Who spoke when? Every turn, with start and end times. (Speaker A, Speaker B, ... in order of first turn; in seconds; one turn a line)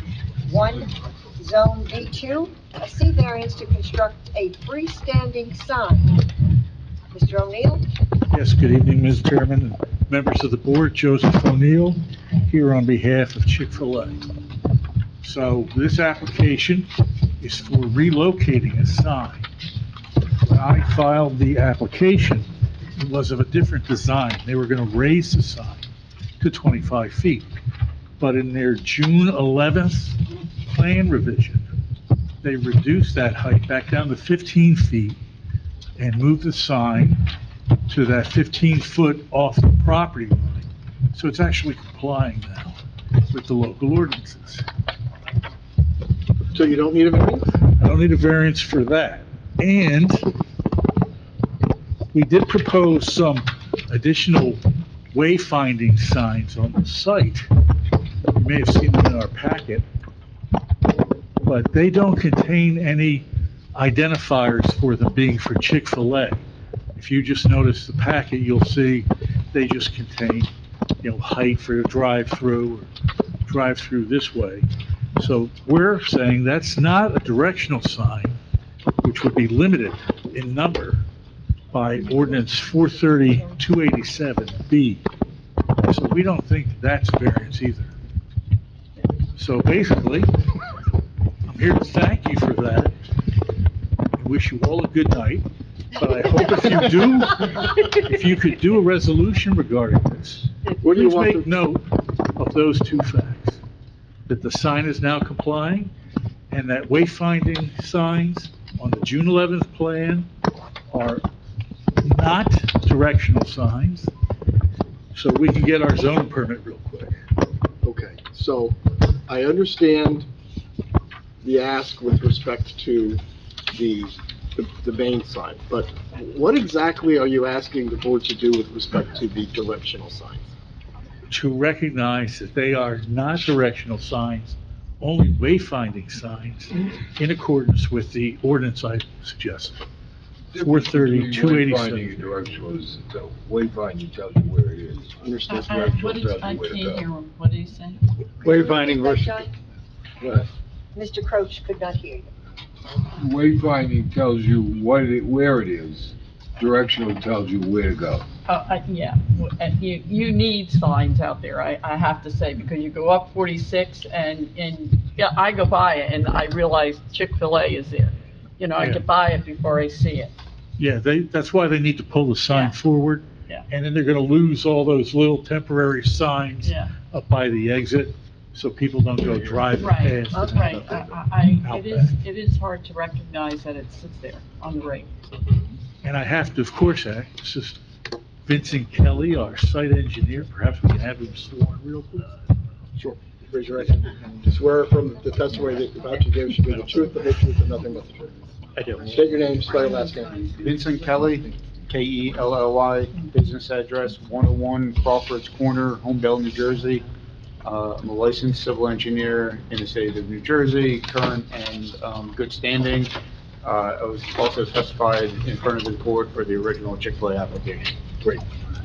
Speaker A: 0.4-6.3
Speaker A: 7.1-7.8
Speaker B: 8.3-14.3
Speaker B: 15.2-16.9
Speaker B: 17.4-19.5
Speaker B: 20.5-22.5
Speaker B: 23.0-25.9
Speaker B: 26.4-27.5
Speaker B: 28.2-31.6
Speaker B: 32.4-35.2
Speaker B: 36.0-37.2
Speaker B: 37.9-44.6
Speaker C: 46.5-47.6
Speaker B: 47.6-50.3
Speaker B: 52.1-54.6
Speaker B: 55.1-57.5
Speaker B: 58.4-59.8
Speaker B: 61.4-66.4
Speaker B: 67.0-70.5
Speaker B: 71.0-72.9
Speaker B: 73.5-74.7
Speaker B: 75.2-78.4
Speaker B: 79.0-81.0
Speaker B: 81.7-85.0
Speaker B: 85.8-87.9
Speaker B: 89.4-90.3
Speaker B: 91.5-92.9
Speaker B: 94.2-101.9
Speaker C: 100.8-101.5
Speaker B: 102.4-103.6
Speaker B: 104.3-105.9
Speaker B: 106.5-110.3
Speaker B: 110.9-111.2
Speaker B: 112.0-114.1
Speaker B: 115.2-117.1
Speaker C: 117.8-118.8
Speaker C: 119.3-120.3
Speaker C: 121.4-123.2
Speaker C: 123.7-130.5
Speaker B: 131.3-139.8
Speaker D: 140.5-147.1
Speaker B: 140.6-142.2
Speaker E: 145.5-148.0
Speaker A: 148.4-149.5
Speaker B: 148.5-149.3
Speaker A: 150.9-152.3
Speaker D: 153.2-158.2
Speaker E: 158.5-170.3
Speaker B: 170.8-182.1
Speaker E: 172.5-172.8
Speaker E: 176.6-176.9
Speaker E: 179.8-185.1
Speaker B: 186.0-187.8
Speaker B: 188.5-192.4
Speaker C: 193.0-198.4
Speaker B: 198.8-199.2
Speaker C: 199.0-200.5
Speaker F: 200.5-207.0
Speaker F: 207.6-213.1
Speaker F: 213.6-218.0